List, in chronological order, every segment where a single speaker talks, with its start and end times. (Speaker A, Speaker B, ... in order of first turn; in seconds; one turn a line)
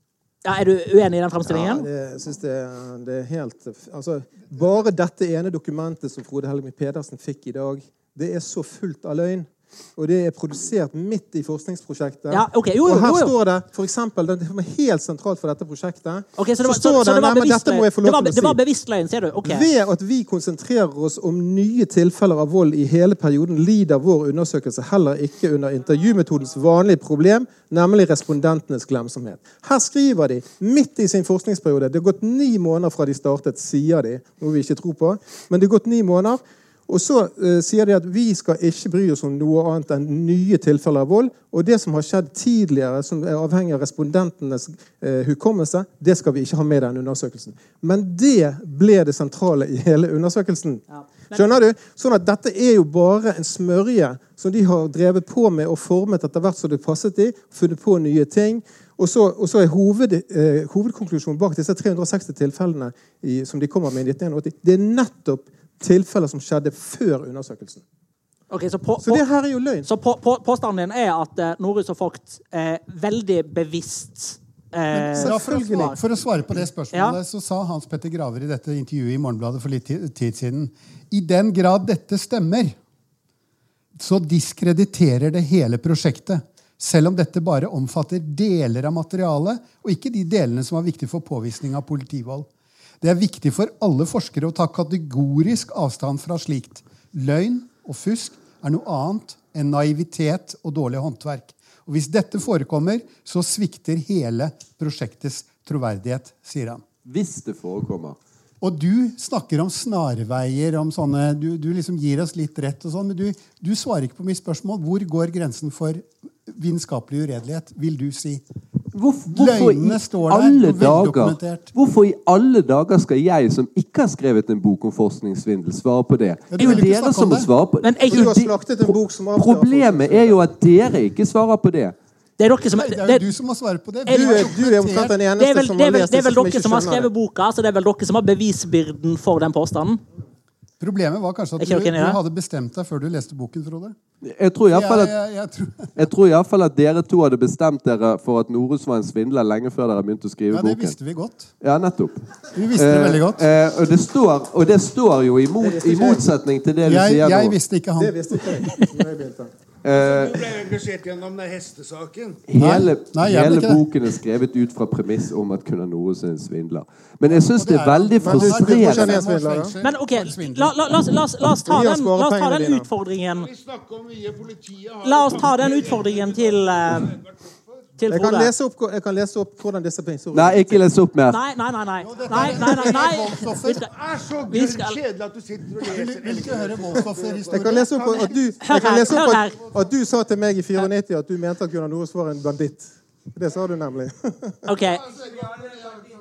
Speaker A: 0.5-1.9
Speaker B: 1.4-18.6
Speaker A: 12.3-13.3
Speaker A: 16.4-19.7
Speaker B: 19.4-67.8
Speaker A: 50.9-51.6
Speaker A: 68.5-69.2
Speaker B: 69.0-69.9
Speaker A: 69.8-76.0
Speaker B: 75.0-76.0
Speaker C: 75.2-82.8
Speaker A: 76.9-77.2
Speaker C: 84.0-92.5
Speaker C: 93.0-106.8
Speaker D: 107.1-108.2
Speaker C: 108.6-118.4
Speaker D: 118.9-131.9
Speaker C: 119.3-121.7
Speaker C: 126.5-127.5
Speaker A: 127.8-128.3
Speaker B: 128.1-130.4
Speaker A: 132.4-133.2
Speaker C: 132.8-135.2
Speaker A: 134.1-134.6
Speaker B: 134.1-137.1
Speaker A: 135.4-140.0
Speaker C: 140.8-144.0
Speaker A: 141.6-142.2
Speaker D: 144.2-145.1
Speaker C: 144.7-145.9
Speaker D: 145.9-150.9
Speaker C: 150.5-151.5
Speaker D: 151.6-157.6
Speaker C: 152.5-153.5
Speaker B: 155.6-156.3
Speaker C: 156.8-158.1
Speaker B: 158.0-159.5
Speaker D: 159.8-160.5
Speaker E: 159.9-162.4
Speaker D: 162.5-169.3
Speaker C: 162.6-163.8
Speaker C: 167.6-171.1
Speaker B: 168.2-169.8
Speaker A: 169.8-173.5
Speaker B: 171.7-172.9
Speaker E: 173.4-177.8
Speaker A: 175.0-177.1
Speaker A: 178.0-178.5
Speaker B: 178.1-180.9
Speaker D: 180.3-181.4
Speaker A: 181.3-183.9
Speaker C: 182.0-183.9
Speaker E: 183.9-188.6
Speaker A: 184.5-185.0
Speaker C: 185.8-187.9
Speaker B: 187.5-194.7
Speaker A: 188.6-189.6
Speaker A: 194.7-195.9